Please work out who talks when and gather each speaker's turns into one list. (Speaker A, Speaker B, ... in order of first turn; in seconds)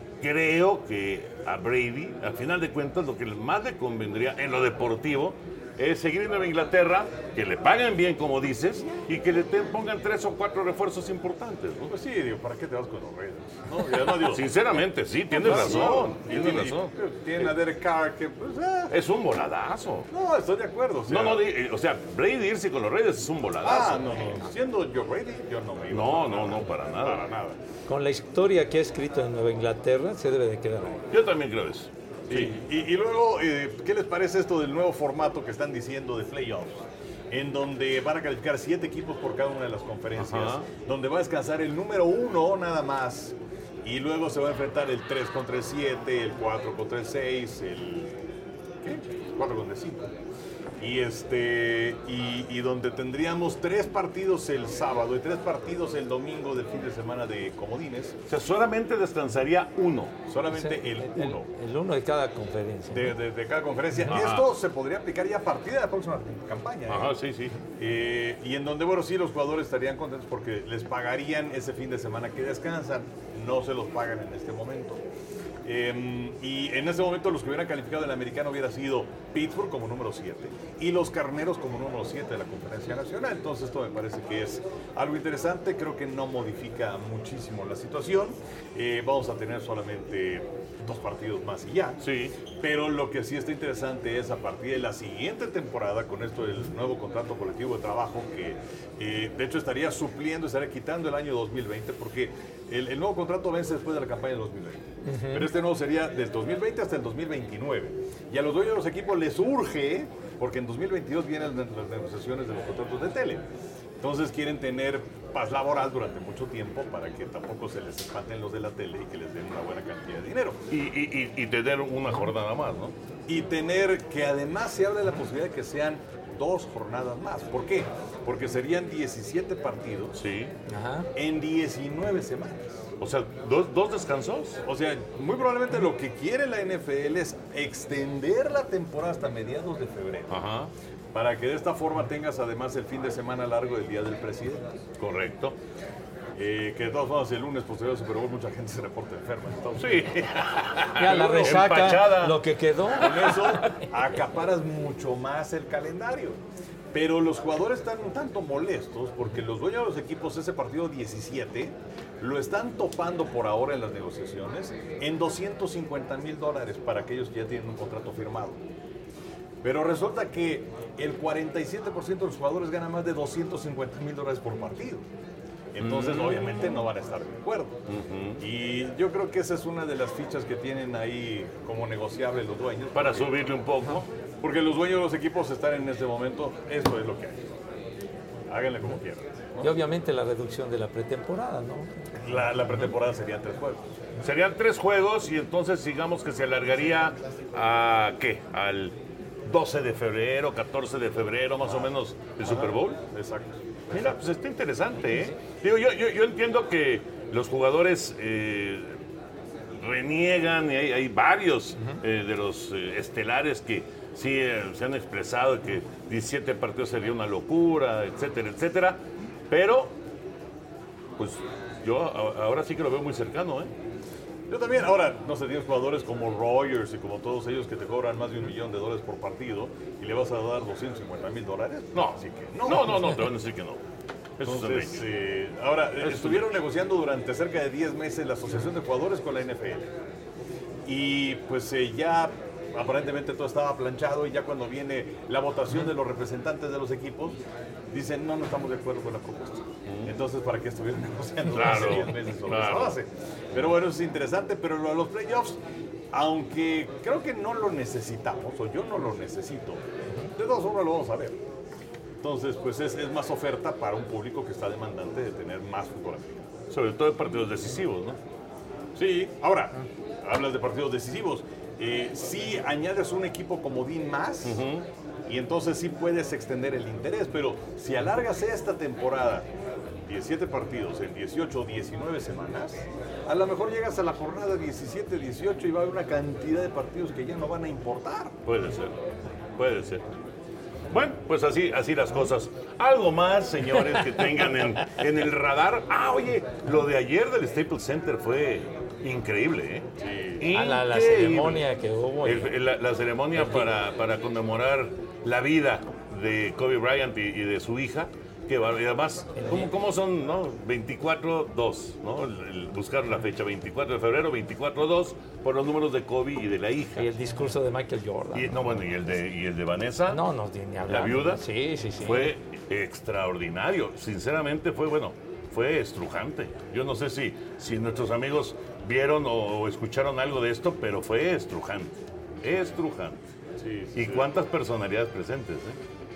Speaker A: 0.2-11.9, 14.2-17.5, 18.9-20.1, 21.1-24.4, 25.9-27.2, 31.1-32.6, 40.2-40.7, 58.3-60.2, 64.1-64.5, 66.9-67.6, 92.0-92.3, 120.7-123.0, 130.2-130.5, 133.0-134.6, 140.3-140.7, 145.0-145.6, 149.8-152.4, 153.2-153.5, 175.8-176.8, 177.9-178.4, 182.9-184.1, 194.2-203.0, 203.9-209.0, 209.8-219.9, 221.2-223.7, 231.9-233.8, 234.4-235.1, 236.0-236.6, 249.9-250.1, 251.5-253.0, 266.7-268.2, 274.4-274.9, 288.5-288.9, 289.6-290.0, 290.9-299.9, 300.4-301.7, 302.2-317.1, 318.4-320.2, 320.9-321.4, 322.0-333.2, 333.9-335.8
Speaker B: 11.9-14.5, 15.3-18.9, 20.1-21.5, 23.6-27.6, 32.3-48.1, 48.8-50.1, 50.8-58.2, 60.3-61.5, 62.9-67.1, 67.8-75.0, 75.7-92.0, 92.5-113.4, 114.0-120.6, 123.3-130.2, 131.2-132.8, 134.7-140.3, 141.1-144.8, 146.4-151.3, 153.0-156.4, 156.9-168.6, 169.6-175.1, 175.8-177.8, 178.4-183.5, 184.4-187.4, 188.5-189.7, 192.2-193.8, 202.4-203.6, 224.5-233.2, 234.4-239.9, 240.8-247.4, 247.9-255.6, 256.1-259.8, 260.4-261.4, 262.2-266.5, 269.0-274.6, 275.3-279.5, 280.1-288.4, 300.0-300.5, 333.6-334.3
Speaker C: 27.9-31.0, 60.5-63.2, 105.0-105.5, 130.7-131.1, 150.9-153.7, 189.6-192.0, 300.5-302.5, 303.4-303.7, 309.4-309.7, 317.0-318.9, 320.1-322.3